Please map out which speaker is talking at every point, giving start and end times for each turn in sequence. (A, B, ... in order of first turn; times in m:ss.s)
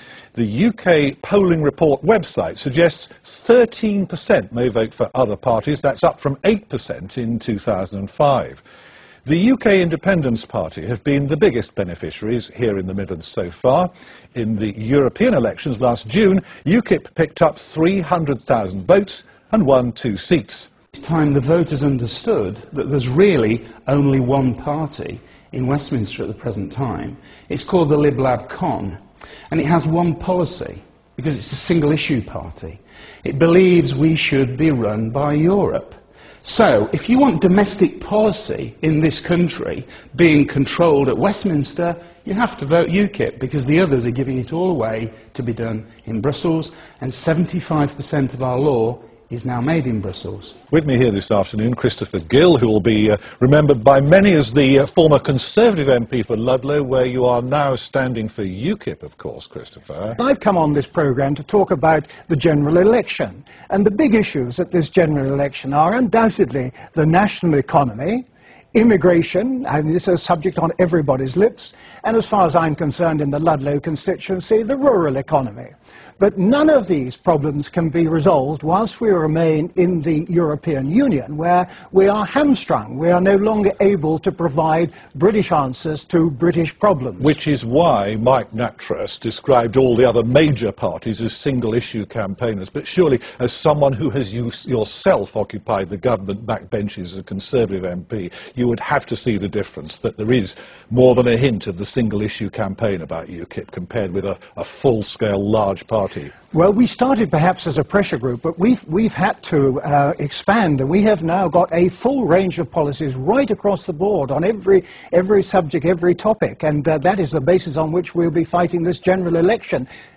0:00.3-0:08.6 A
0:09.2-0:20.7 A
0:20.9-0:29.0 B
0:29.5-0:50.6 B
0:50.7-1:00.2 A
1:00.2-1:27.4 C
1:27.2-1:46.3 A
1:46.5-1:59.9 C